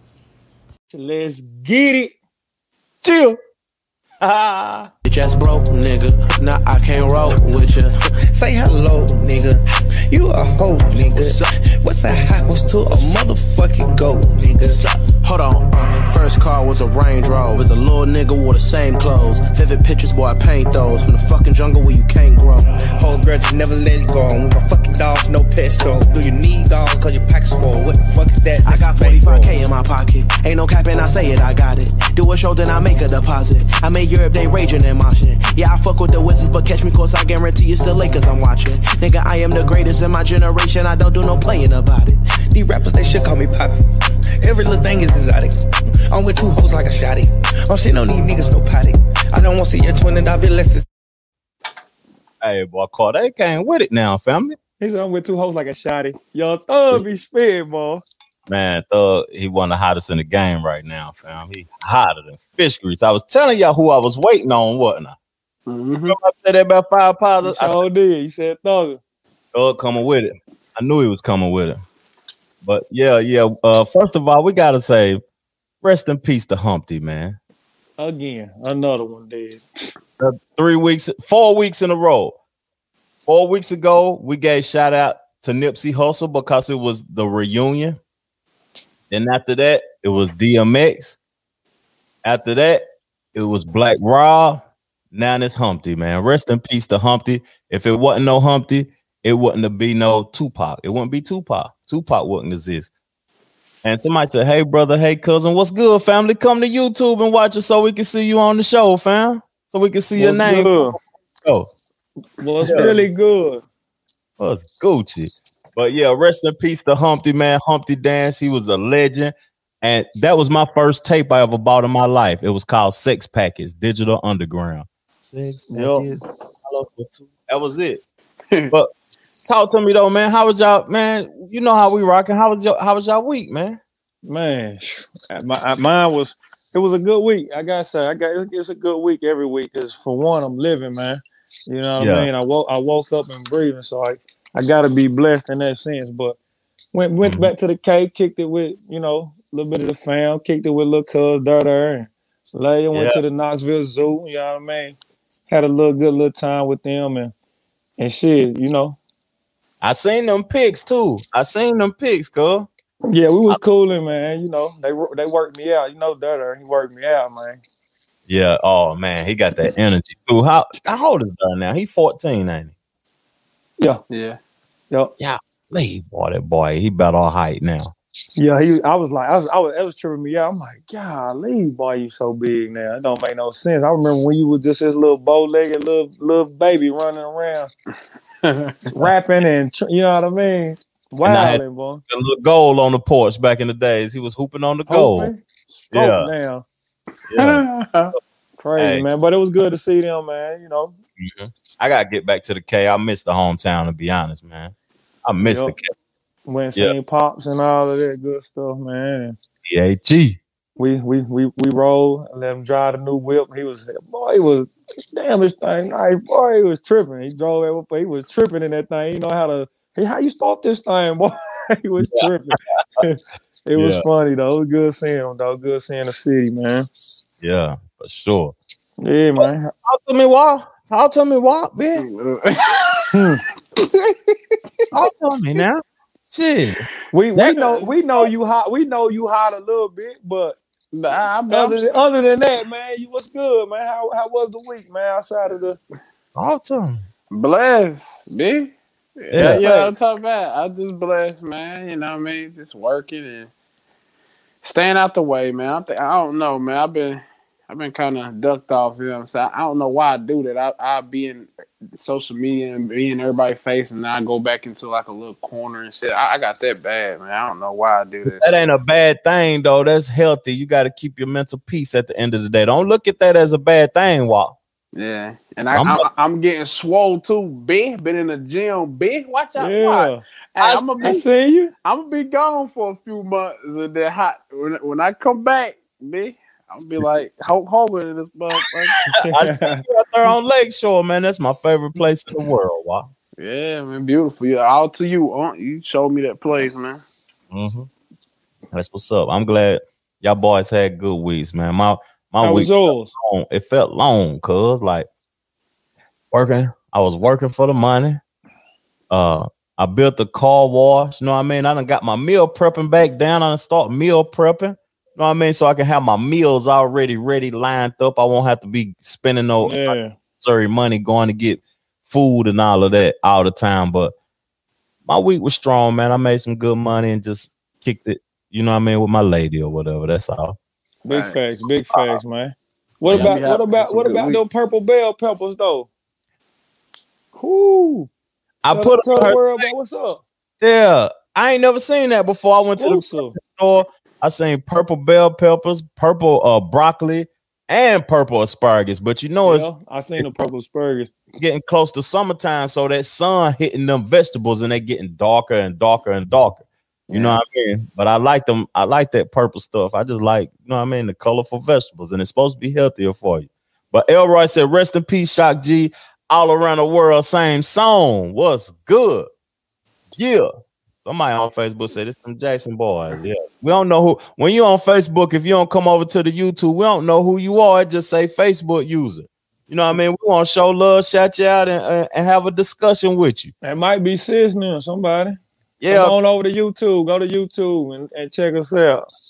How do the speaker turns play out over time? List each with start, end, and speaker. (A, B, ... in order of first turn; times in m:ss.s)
0:00.9-0:02.1 A
0:03.0-0:03.4 B
0:04.2-0:04.9 B
0:05.0-0:08.0 C
0:07.2-0:07.7 D
0:08.3-0:14.8 D
0:11.0-0:11.4 C
0:14.6-0:22.7 C
0:23.0-0:29.6 D
0:28.6-0:42.2 C
0:42.5-0:43.7 D
0:44.4-0:45.5 D
0:46.1-0:50.8 D
0:52.4-0:54.6 B
0:54.8-0:58.0 A
0:58.5-1:05.1 B
1:05.7-1:06.2 E
1:06.1-1:07.8 B
1:07.4-1:09.0 A
1:09.5-1:11.8 B
1:12.6-1:15.2 B
1:15.8-1:17.4 B
1:18.0-1:19.6 A
1:20.2-1:22.4 B
1:23.3-1:28.0 B
1:29.1-1:31.2 B
1:32.2-1:32.8 B
1:33.3-1:42.9 B
1:43.8-1:51.7 B
1:50.2-1:51.0 A
1:52.4-1:53.6 A
1:52.6-1:52.9 B
1:54.4-2:08.0 B
2:05.7-2:06.2 A
2:09.4-2:13.8 B
2:14.2-2:26.4 A
2:22.0-2:22.3 B
2:26.9-2:35.0 A
2:27.2-2:27.5 B
2:32.9-2:33.2 B
2:35.5-2:37.3 A
2:38.0-2:39.0 A
2:39.8-2:42.7 B
2:43.1-2:47.6 A
2:48.3-2:52.7 B
2:54.1-2:54.4 E
2:55.2-2:57.9 B
2:58.4-3:07.7 A
3:08.4-3:08.9 E
3:08.9-3:12.0 A
3:11.2-3:15.3 B
3:14.9-3:16.6 A
3:15.9-3:16.3 B
3:17.3-3:17.6 B
3:17.4-3:18.1 E
3:18.6-3:21.0 A
3:18.8-3:19.0 B
3:21.2-3:24.7 B
3:25.2-3:25.9 B
3:25.4-3:25.7 A
3:26.4-3:29.4 A
3:29.7-3:30.4 B
3:30.8-3:46.9 A
3:43.8-3:44.0 B
3:47.4-3:48.5 B
3:49.0-3:49.7 A
3:49.4-3:52.0 B
3:52.0-3:53.1 E
3:53.1-3:53.4 A
3:53.8-3:54.4 E
3:54.9-3:57.5 B
3:57.1-4:00.6 A
3:57.5-3:57.9 E
4:00.9-4:01.9 E
4:01.5-4:05.8 A
4:06.4-4:07.0 B
4:07.3-4:13.5 E
4:09.3-4:09.6 B
4:09.4-4:10.0 A
4:14.6-4:28.5 E
4:28.2-4:34.6 B
4:35.0-4:41.2 E
4:35.7-4:36.0 B
4:39.6-4:40.2 A
4:40.6-4:41.1 B
4:41.0-4:41.7 A
4:41.8-4:49.0 E
4:49.2-4:49.8 A
4:49.3-4:53.1 B
4:53.4-4:57.0 E
4:57.5-4:57.9 B
4:58.7-5:05.1 B
5:02.4-5:03.1 A
5:06.3-5:08.2 B
5:09.1-5:24.1 B
5:19.6-5:20.1 A
5:25.0-5:30.6 B
5:31.0-5:35.9 A
5:31.1-5:31.4 E
5:33.1-5:34.4 E
5:37.4-5:38.1 A
5:38.6-5:39.7 B
5:38.7-5:40.2 A
5:40.6-5:50.3 B
5:42.7-5:43.4 A
5:49.4-5:51.1 A
5:51.4-6:09.3 B
5:57.1-5:57.4 E
6:10.2-6:10.5 B
6:11.0-6:23.5 B
6:23.6-6:25.4 A
6:25.8-6:26.2 B
6:25.9-6:29.0 A